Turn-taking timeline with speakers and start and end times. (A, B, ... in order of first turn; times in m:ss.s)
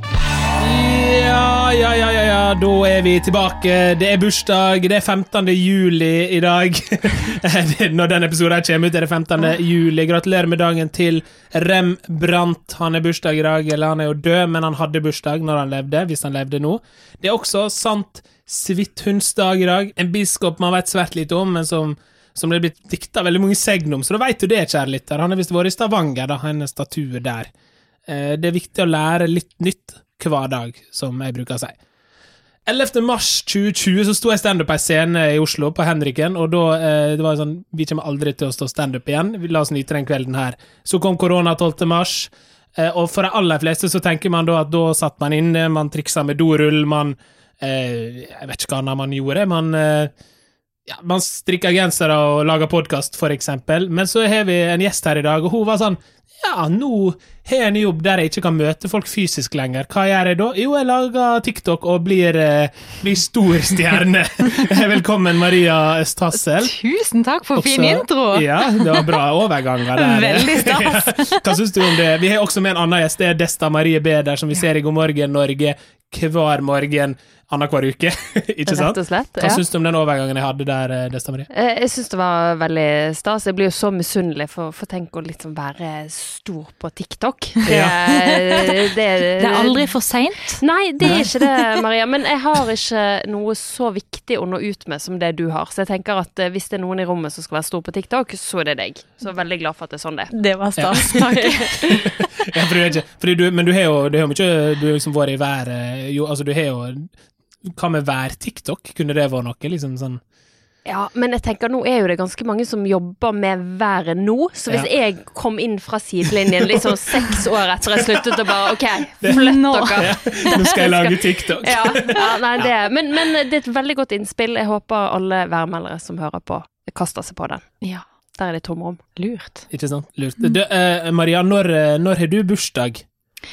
0:00.6-0:27.5 A
0:28.1-0:31.7 A
0:32.6-0:50.1 A
0:50.8-1:06.7 A
1:06.6-1:09.1 B
1:07.6-1:21.5 A
1:09.9-1:11.4 B
1:18.7-1:19.6 C
1:21.5-1:30.0 C
1:27.7-1:27.9 A
1:27.8-1:28.7 B
1:29.4-1:31.6 B
1:30.6-1:40.4 C
1:31.0-1:31.3 A
1:40.3-1:42.0 B
1:40.8-1:41.1 A
1:40.9-1:41.8 C
1:41.7-1:47.1 A
1:47.6-1:50.2 A
1:50.8-2:00.5 C
1:59.2-2:02.7 A
1:59.3-2:02.2 B
2:01.6-2:07.7 C
2:08.3-2:09.0 C
2:09.2-2:09.6 B
2:09.7-2:13.0 A